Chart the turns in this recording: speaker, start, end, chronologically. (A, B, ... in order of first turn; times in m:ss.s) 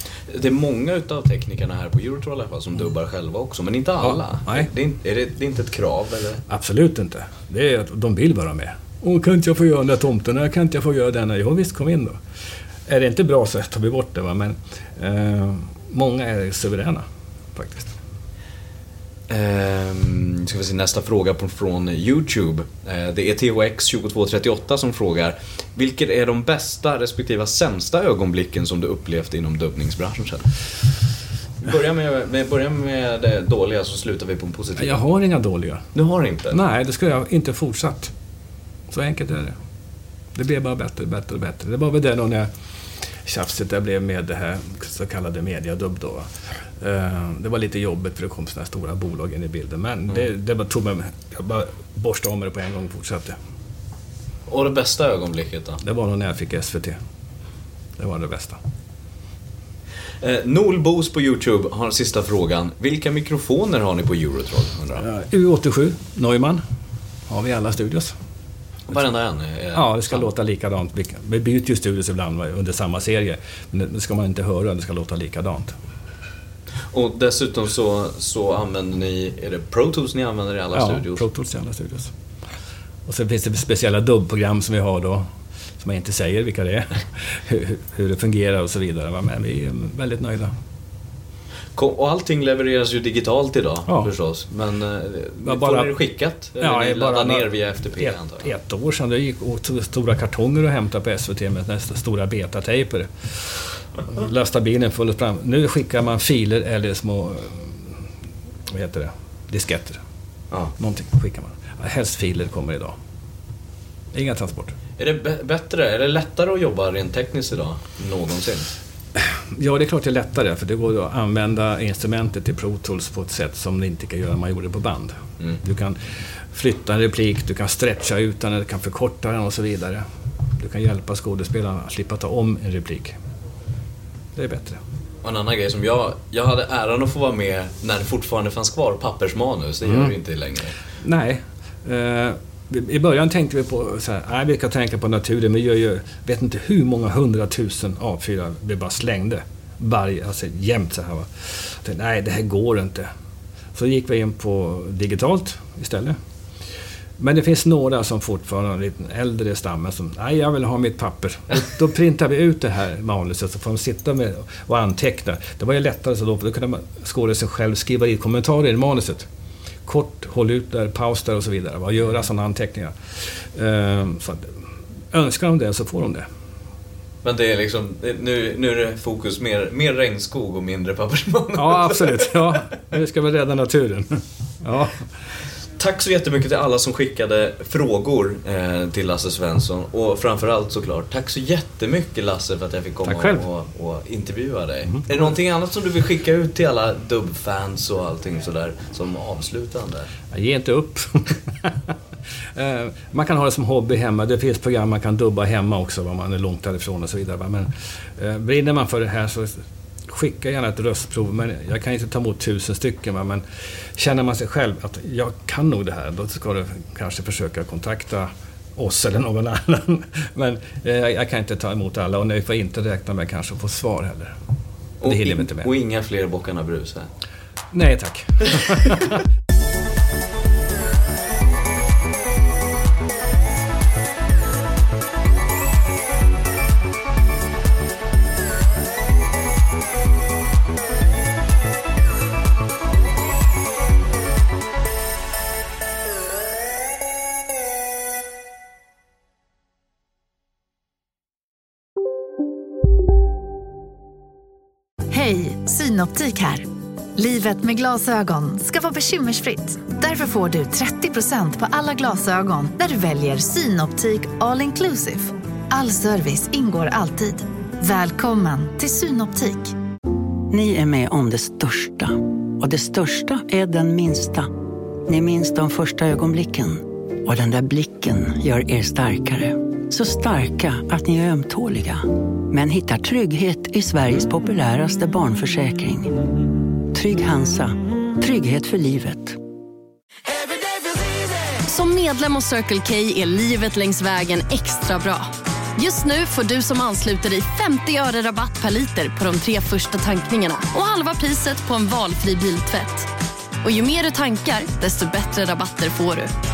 0:00.3-0:06.4 A
0:04.0-0:04.7 B
0:06.5-0:12.2 B
0:12.9-0:17.0 B
0:17.5-0:17.9 B
0:19.3-0:30.5 A
0:31.6-0:35.0 A
0:34.8-0:35.8 B
0:35.9-0:36.6 A
0:36.5-0:38.1 B
0:38.9-0:39.6 B
0:40.3-0:42.5 B
0:43.2-0:53.4 B
0:54.5-0:55.8 A
0:55.8-0:57.0 B
0:58.0-0:58.6 B
1:00.2-1:05.0 A
1:05.0-1:06.6 B
1:07.3-1:08.1 B
1:08.9-1:10.3 A
1:09.7-1:15.7 B
1:16.9-1:21.2 A
1:20.7-1:22.1 B
1:23.1-1:25.3 B
1:25.8-1:30.5 B
1:31.7-1:38.5 A
1:33.9-1:34.1 B
1:35.4-1:36.0 B
1:36.6-1:43.3 B
1:44.1-1:48.0 B
1:48.7-1:50.0 B
1:50.8-1:52.9 B
1:54.1-1:54.7 B
1:55.0-1:58.7 A
1:59.2-2:06.0 B
2:06.5-2:10.0 B
2:10.6-2:13.2 B
2:14.4-2:14.8 B
2:15.2-2:20.7 A
2:19.8-2:20.1 B
2:21.0-2:33.1 B
2:33.7-2:36.2 B
2:37.2-2:49.3 B
2:49.8-2:54.5 B
2:55.1-2:56.2 B
2:57.2-3:02.6 A
3:01.5-3:05.0 B
3:05.8-3:20.1 A
3:13.0-3:13.5 B
3:20.3-3:21.7 B
3:22.6-3:33.4 B
3:34.0-3:44.4 B
3:45.0-3:47.1 A
3:45.0-3:45.7 B
3:47.7-3:49.2 B
4:15.1-4:16.6 C
4:17.2-4:29.7 C
4:30.5-4:34.5 D
4:35.1-4:46.1 D
4:46.9-4:49.4 D
4:52.2-4:52.6 E
4:54.6-4:55.1 E
4:55.8-5:02.8 E
5:03.6-5:06.2 E